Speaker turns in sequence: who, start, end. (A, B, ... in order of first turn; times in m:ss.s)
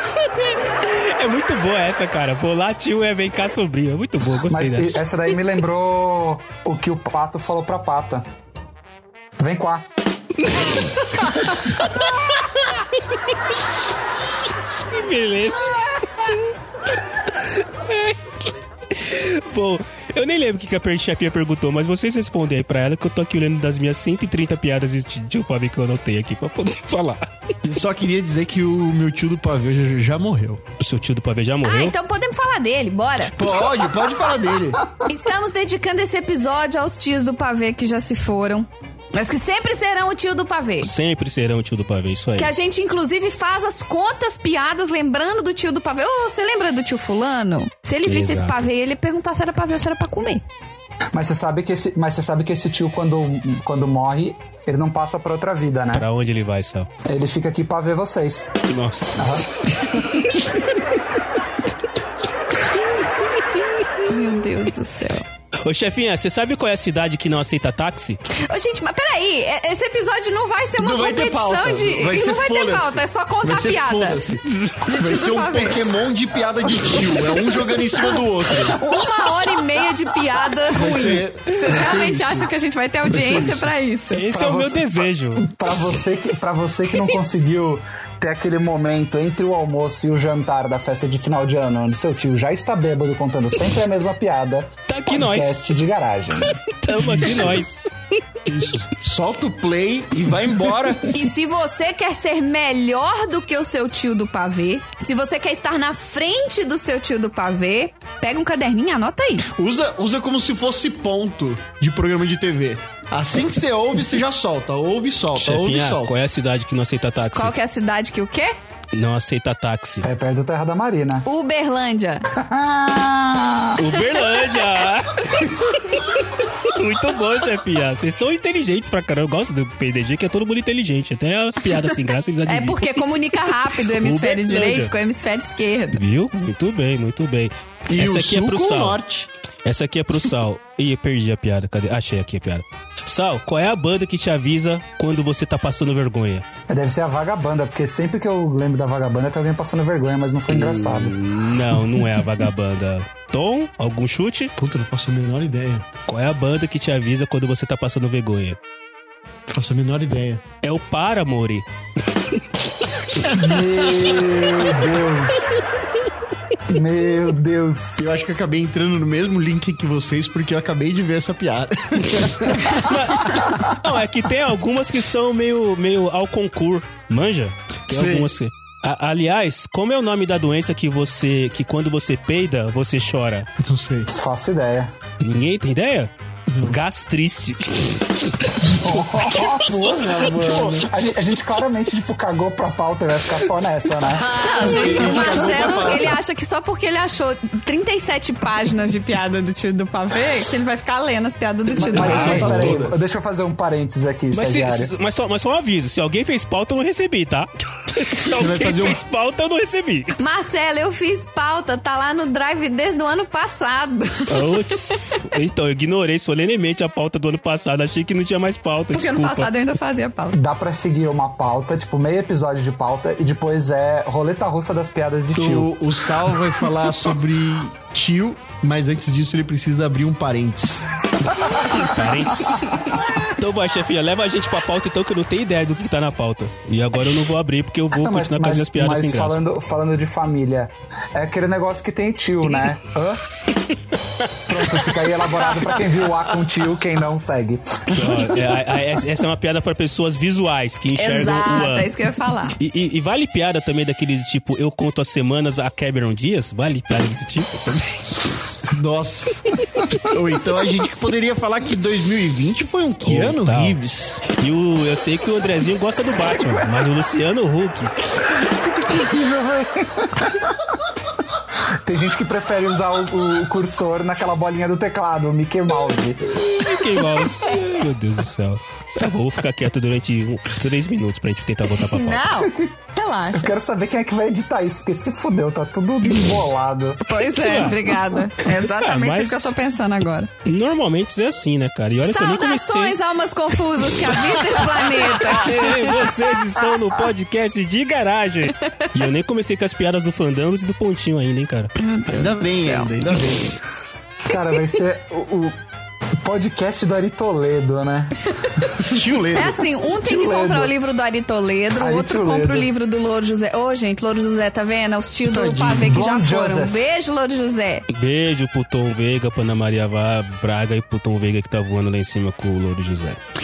0:00.8-0:05.0 A
0:04.5-0:08.3 B
0:09.4-0:09.9 B
0:14.9-0:16.5 A
0:17.3-0:27.3 A
0:27.6-0:30.6 C
0:30.8-0:32.0 A
0:31.6-0:33.5 D
0:33.3-0:34.9 C
0:35.1-0:40.9 D
0:40.8-0:42.5 A
0:42.4-0:50.4 D
0:48.0-0:48.6 A
0:51.1-0:56.1 B
0:55.9-0:56.9 A
0:57.1-0:58.5 B
0:58.7-1:00.6 A
0:59.2-1:00.2 B
1:04.0-1:05.2 D
1:05.6-1:08.2 A
1:08.3-1:14.2 D
1:10.8-1:18.8 C
1:14.8-1:15.9 D
1:18.7-1:24.2 D
1:20.7-1:22.5 C
1:23.0-1:23.7 C
1:24.1-1:25.5 A
1:24.3-1:36.6 B
1:34.9-1:35.6 A
1:36.7-1:37.9 A
1:36.9-1:37.6 C
1:38.5-1:41.1 C
1:41.1-1:49.5 D
1:49.5-1:56.1 C
1:55.4-1:57.6 A
1:57.3-1:58.5 D
1:58.9-2:00.1 A
2:00.0-2:01.3 B
2:01.2-2:02.3 D
2:02.3-2:03.9 B
2:03.8-2:13.0 A
2:12.5-2:16.0 D
2:13.8-2:14.9 A
2:15.9-2:19.0 A
2:17.9-2:19.3 C
2:19.6-2:26.4 A
2:26.7-2:31.2 B
2:30.5-2:34.5 A
2:34.6-2:35.9 C
2:36.1-2:38.6 A
2:39.5-2:40.4 C
2:40.6-2:41.6 A
2:43.3-2:45.6 B
2:46.7-2:48.0 B
2:48.0-2:53.0 C
2:52.7-3:03.5 A
2:57.9-2:58.3 C
3:03.6-3:04.1 C
3:04.1-3:04.9 B
3:05.2-3:06.1 A
3:06.5-3:06.8 C
3:06.6-3:08.3 A
3:08.6-3:14.9 B
3:10.0-3:10.9 C
3:14.0-3:16.2 C
3:14.4-3:22.7 D
3:21.8-3:23.0 C
3:21.8-3:24.9 B
3:24.3-3:30.2 A
3:28.2-3:29.0 C
3:30.2-3:34.9 D
3:34.3-3:39.5 A
3:38.9-3:40.4 D
3:40.3-3:46.5 B
3:45.4-3:50.9 C
3:51.3-3:51.9 B
3:51.5-3:59.4 A
3:57.9-4:03.2 B
4:04.5-4:08.5 B
4:07.9-4:11.9 A
4:11.0-4:12.6 D
4:12.6-4:18.3 A
4:18.7-4:24.2 C
4:23.0-4:28.0 A
4:28.3-4:30.6 B
4:31.6-4:36.4 B
4:36.4-4:42.4 A
4:41.7-4:43.5 D
4:42.3-4:42.7 B
4:43.3-4:47.0 B
4:47.0-4:50.3 D
4:47.3-4:49.5 A
4:50.4-4:53.0 A
4:52.0-4:56.1 D
4:55.3-5:01.7 A
5:01.8-5:03.1 D
5:02.1-5:03.6 C
5:04.2-5:05.6 B
5:06.2-5:08.9 B
5:08.8-5:09.6 C
5:09.3-5:17.9 D
5:10.0-5:10.7 B
5:11.7-5:12.7 B
5:15.3-5:16.0 C
5:15.8-5:16.8 B
5:17.9-5:23.2 A